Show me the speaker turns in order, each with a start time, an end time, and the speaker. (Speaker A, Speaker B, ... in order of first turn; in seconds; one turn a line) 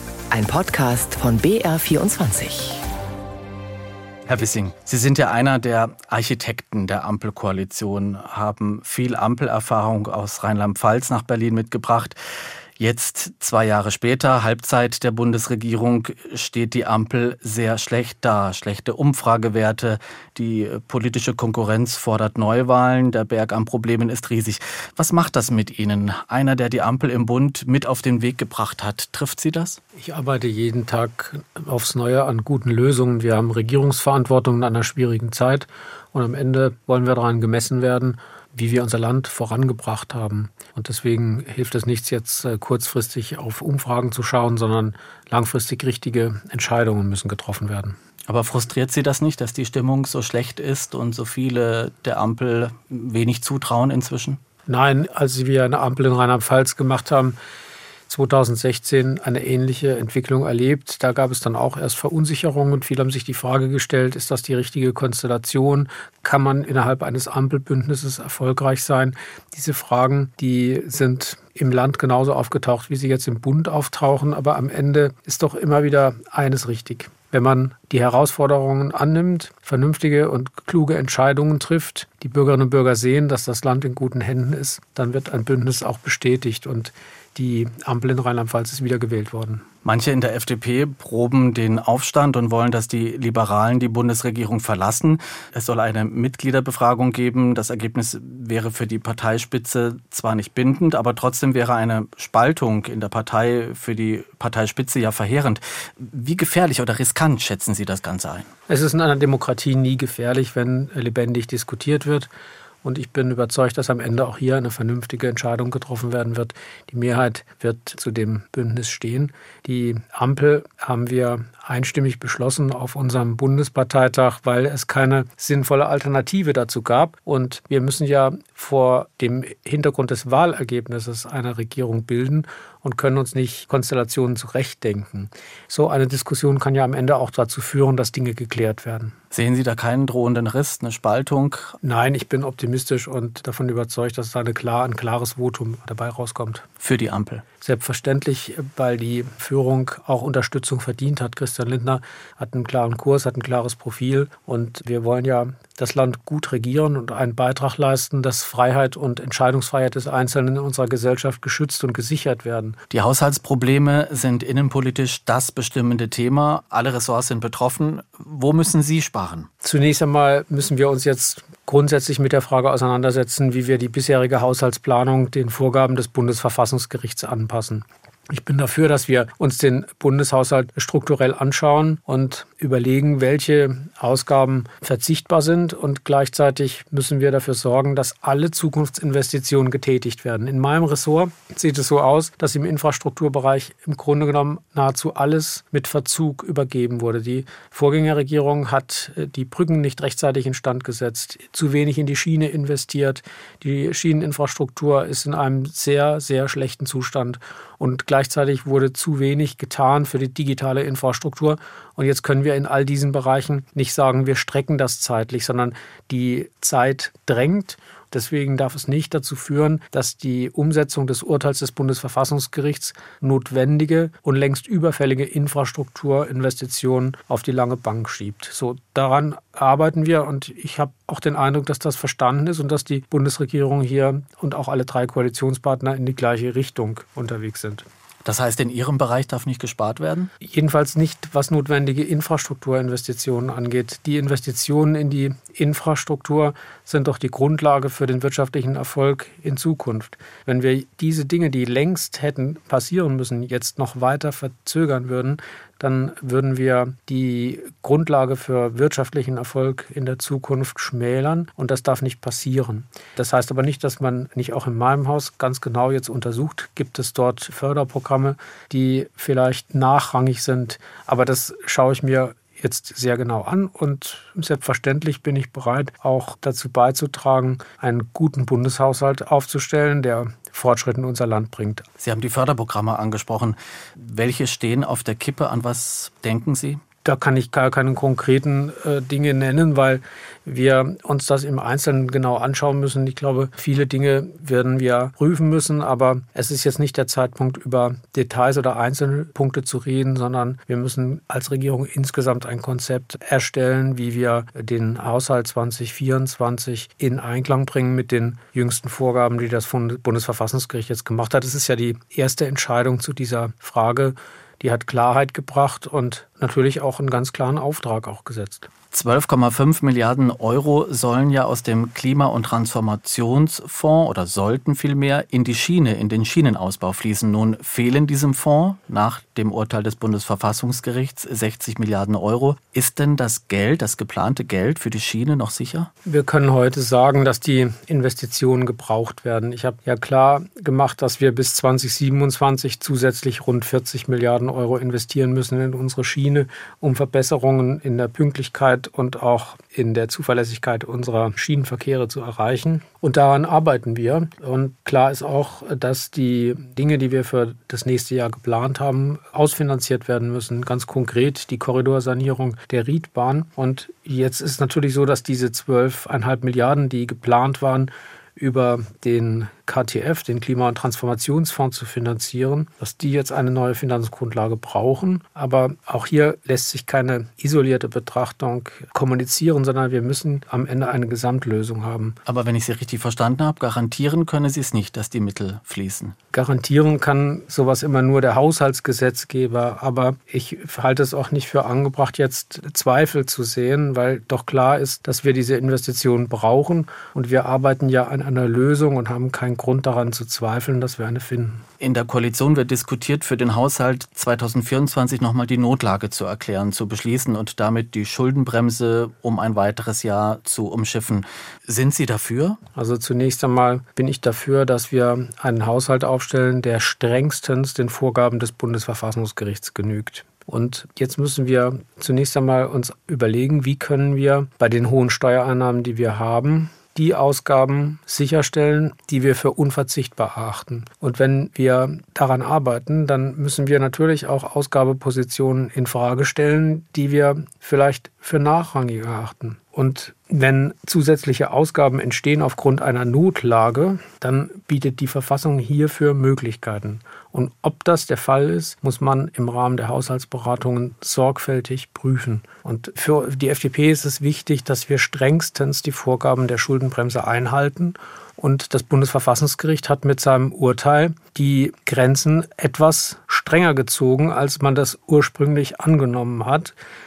Speaker A: 0.3-2.8
Speaker B: 4.3-12.2
Speaker B: 12.8-29.8
Speaker C: 30.0-48.0
Speaker B: 48.3-54.4
Speaker C: 54.7-57.4
Speaker C: 58.1-89.6
Speaker B: 89.8-108.5
Speaker C: 108.7-112.3
Speaker C: 112.8-139.1
Speaker B: 139.3-141.7
Speaker C: 141.8-146.7
Speaker B: 146.8-147.4
Speaker C: 147.6-162.8
Speaker B: 162.9-169.5
Speaker C: 169.6-237.8
Speaker B: 238.2-240.3
Speaker C: 240.4-281.9
Speaker B: 282.0-286.8
Speaker C: 287.0-318.7
Speaker B: 318.9-335.9
Speaker C: 336.1-382.2
Speaker B: 382.2-386.1
Speaker C: 386.3-401.6
Speaker B: 401.8-412.6
Speaker C: 412.8-466.8